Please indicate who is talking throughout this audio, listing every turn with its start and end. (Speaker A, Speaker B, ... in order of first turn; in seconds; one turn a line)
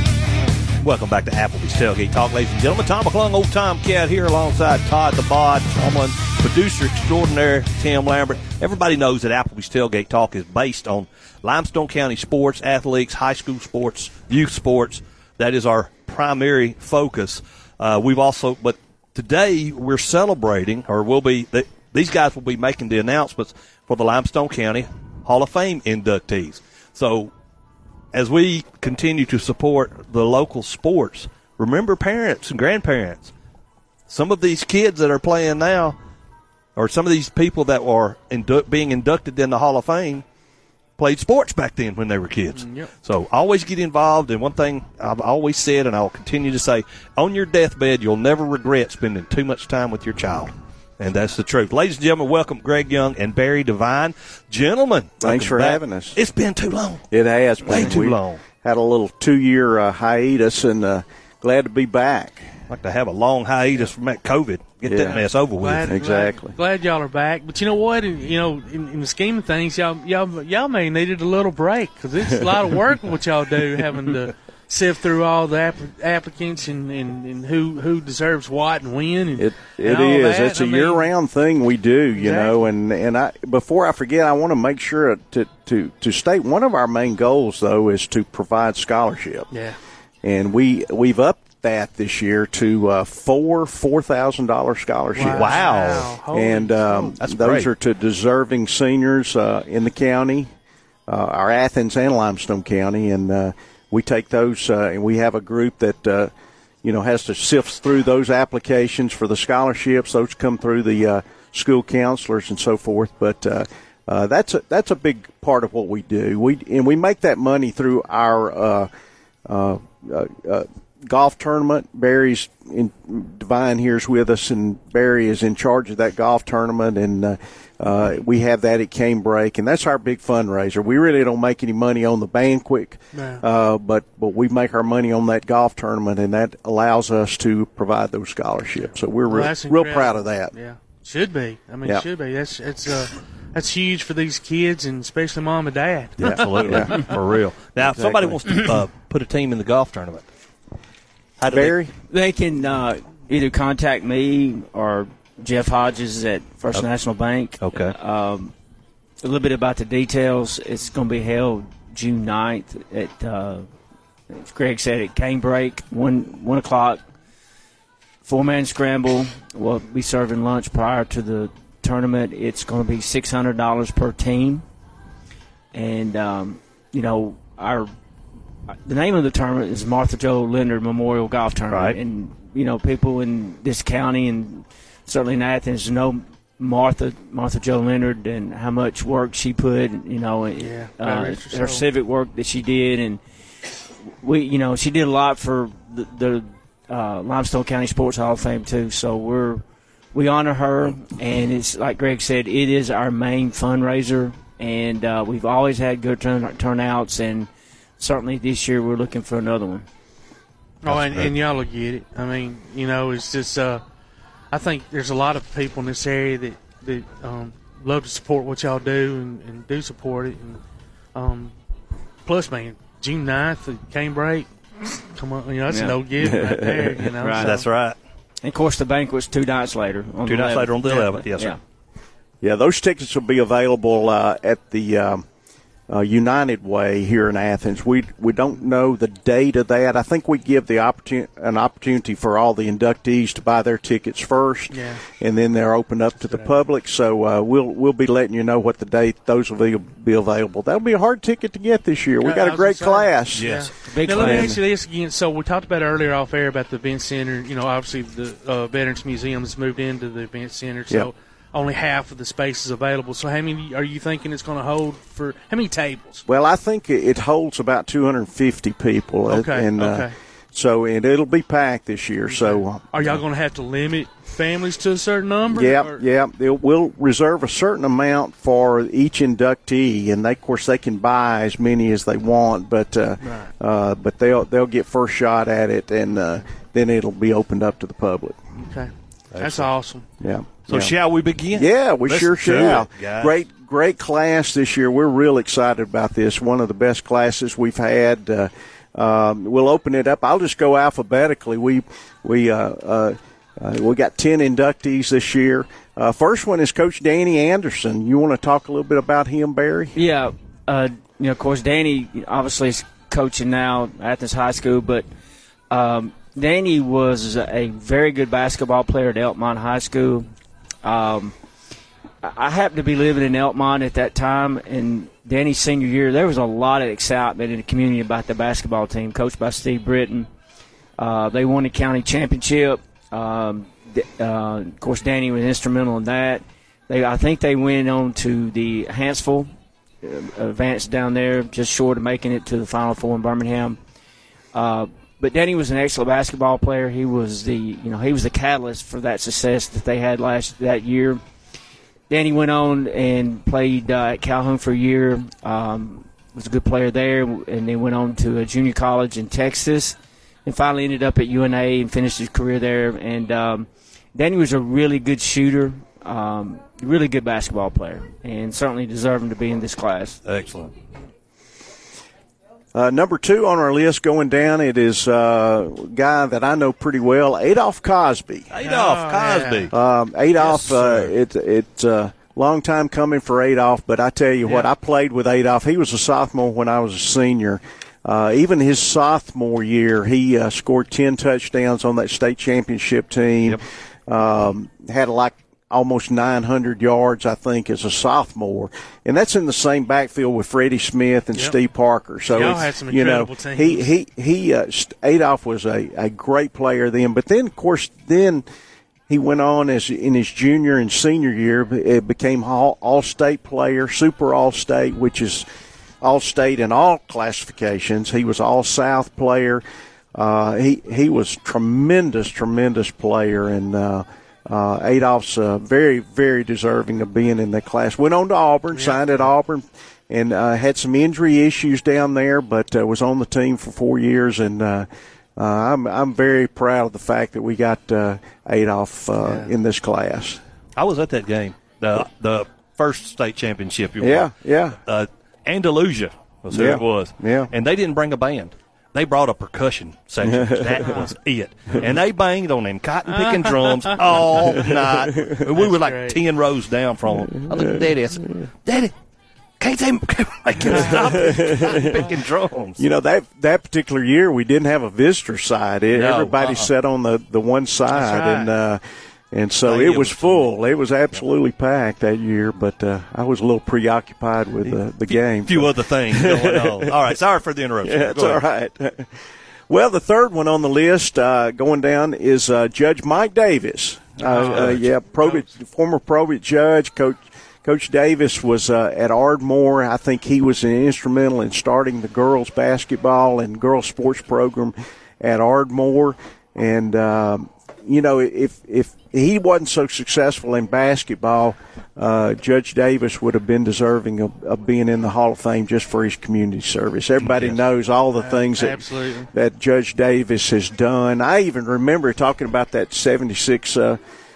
Speaker A: 0.8-27.3
Speaker A: 28.1-33.3
Speaker A: 34.1-36.0
Speaker A: 36.8-40.2
Speaker A: 41.0-57.0
Speaker B: 42.5-42.9
Speaker C: 55.2-56.1
Speaker C: 57.1-62.5
Speaker A: 57.6-58.4
Speaker A: 62.7-65.9
Speaker C: 64.8-65.2
Speaker B: 65.0-81.1
Speaker C: 65.8-66.5
Speaker C: 79.4-89.5
Speaker B: 82.2-82.6
Speaker B: 89.5-89.8
Speaker C: 90.2-95.7
Speaker B: 95.2-97.2
Speaker A: 95.2-96.1
Speaker C: 96.3-100.5
Speaker A: 97.2-97.7
Speaker C: 101.1-106.3
Speaker C: 106.8-118.9
Speaker C: 119.5-140.5
Speaker B: 133.1-133.4
Speaker B: 139.3-147.1
Speaker A: 146.2-150.2
Speaker C: 146.2-147.1
Speaker C: 147.8-148.8
Speaker A: 151.4-151.8
Speaker C: 151.4-151.9
Speaker D: 152.1-158.5
Speaker A: 157.6-157.9
Speaker D: 159.2-163.7
Speaker D: 164.3-167.0
Speaker D: 168.2-174.6
Speaker D: 175.7-177.9
Speaker D: 178.9-193.2
Speaker A: 181.7-182.0
Speaker B: 190.6-191.8
Speaker D: 194.2-199.6
Speaker D: 200.1-207.5
Speaker D: 208.0-209.8
Speaker B: 210.8-213.8
Speaker A: 210.8-211.3
Speaker B: 214.5-220.6
Speaker B: 221.1-221.6
Speaker B: 222.2-227.6
Speaker D: 225.7-226.0
Speaker C: 226.2-227.0
Speaker D: 227.2-227.6
Speaker A: 227.3-228.0
Speaker D: 228.4-231.6
Speaker A: 230.2-231.5
Speaker B: 230.8-231.1
Speaker C: 232.4-235.2
Speaker C: 235.9-253.6
Speaker B: 244.7-245.0
Speaker B: 246.2-246.6
Speaker B: 252.2-266.2
Speaker A: 253.3-254.5
Speaker D: 253.9-254.5
Speaker C: 254.2-254.6
Speaker C: 266.3-272.9
Speaker B: 269.3-270.1
Speaker B: 272.3-276.0
Speaker C: 275.5-288.4
Speaker B: 283.2-283.5
Speaker B: 288.6-290.1
Speaker A: 289.3-289.7
Speaker C: 290.2-290.9
Speaker A: 290.7-293.3
Speaker C: 291.5-309.9
Speaker D: 309.9-315.1
Speaker D: 315.7-320.3
Speaker D: 320.8-321.3
Speaker D: 322.2-330.3
Speaker D: 331.0-339.5
Speaker D: 340.0-343.8
Speaker D: 344.5-351.2
Speaker D: 352.1-370.2
Speaker A: 370.2-370.7
Speaker C: 372.7-378.5
Speaker A: 378.5-379.7
Speaker B: 378.6-379.7
Speaker C: 379.7-408.4
Speaker A: 380.3-381.1
Speaker B: 384.4-384.7
Speaker B: 402.3-403.8
Speaker C: 409.1-415.4
Speaker C: 416.0-419.6
Speaker C: 420.1-440.4
Speaker B: 428.7-429.2
Speaker B: 439.2-439.5
Speaker A: 440.8-444.3
Speaker C: 444.0-444.8
Speaker A: 444.8-458.9
Speaker C: 446.5-447.5
Speaker C: 450.2-451.0
Speaker B: 453.1-454.6
Speaker C: 454.4-455.3
Speaker B: 455.6-456.2
Speaker C: 457.2-457.9
Speaker A: 459.6-462.8
Speaker B: 460.7-461.2
Speaker C: 460.7-462.0
Speaker C: 462.8-468.8
Speaker A: 465.9-466.7
Speaker B: 467.9-468.5
Speaker C: 469.3-477.1
Speaker A: 469.6-470.5
Speaker A: 474.6-478.4
Speaker C: 477.8-479.1
Speaker C: 479.7-514.0
Speaker B: 484.2-485.5
Speaker A: 484.4-484.9
Speaker A: 507.2-507.6
Speaker B: 508.2-509.3